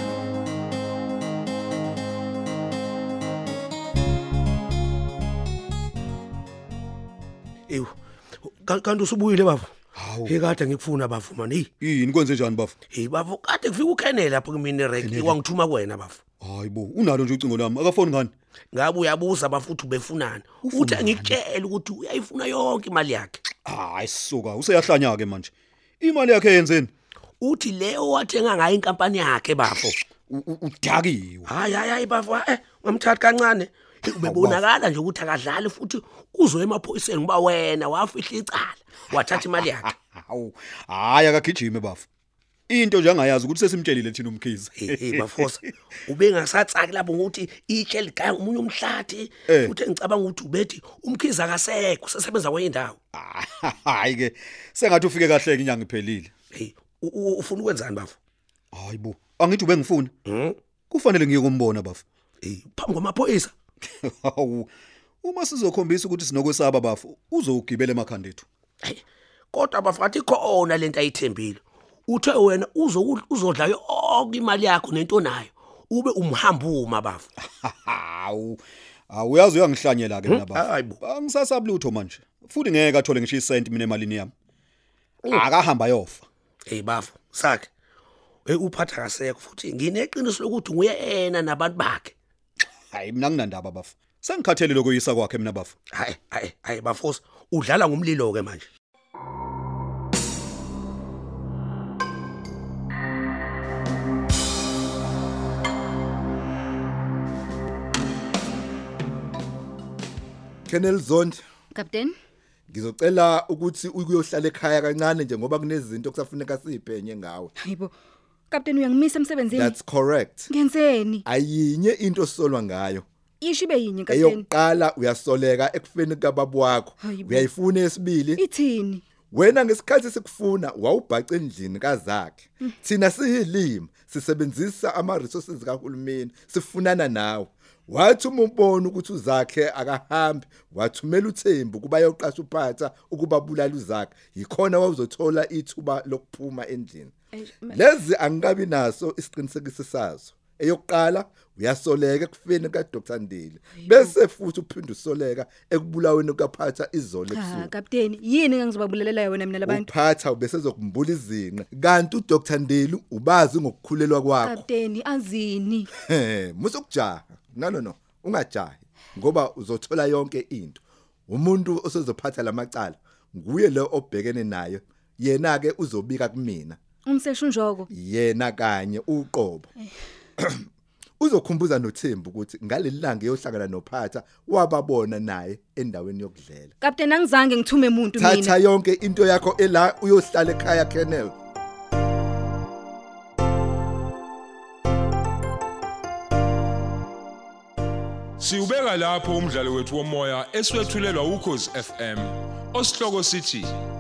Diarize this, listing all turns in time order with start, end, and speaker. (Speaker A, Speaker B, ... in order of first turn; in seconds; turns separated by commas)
Speaker A: 7.7-9.7, Speaker B: 9.9-10.3, Speaker A: 10.3-11.7, Speaker B: 11.8-12.8, Speaker A: 12.9-16.2, Speaker B: 15.0-15.4, Speaker B: 16.4-18.3, Speaker A: 18.7-23.4, Speaker B: 20.6-21.4, Speaker B: 23.6-26.9, Speaker A: 27.4-29.9, Speaker B: 30.3-31.5, Speaker A: 31.6-39.8, Speaker B: 34.2-34.6, Speaker B: 39.1-42.1, Speaker B: 42.7-45.7, Speaker A: 44.8-53.0, Speaker B: 49.5-49.7, Speaker B: 53.1-56.3, Speaker A: 56.5-58.2, Speaker B: 58.7-60.1, Speaker A: 60.2-60.6, Speaker B: 60.9-62.0, Speaker A: 62.4-63.5, Speaker B: 64.0-64.7, Speaker B: 65.2-68.5, Speaker A: 69.5-77.3, Speaker B: 77.6-84.3, Speaker A: 80.3-81.0, Speaker B: 85.3-86.2, Speaker A: 86.7-87.7, Speaker A: 88.5-92.2, Speaker B: 92.9-95.7, Speaker A: 95.9-98.7, Speaker C: 110.7-111.4, Speaker D: 111.7-112.2, Speaker C: 112.7-117.5, Speaker D: 117.6-117.9, Speaker D: 118.5-119.8, Speaker C: 119.5-120.5, Speaker D: 120.5-121.2, Speaker C: 121.3-123.1, Speaker D: 123.4-124.5, Speaker C: 124.1-128.4, Speaker D: 127.0-127.5, Speaker D: 128.4-129.0, Speaker C: 129.3-147.1, Speaker C: 147.7-157.7, Speaker D: 153.7-154.1, Speaker D: 157.3-159.9, Speaker C: 159.7-164.6, Speaker D: 164.4-165.9, Speaker C: 166.0-176.8, Speaker D: 177.1-177.9, Speaker C: 177.9-179.7, Speaker C: 180.4-180.7, Speaker C: 181.2-186.8, Speaker D: 186.8-188.6, Speaker C: 188.2-191.3, Speaker E: 198.4-203.8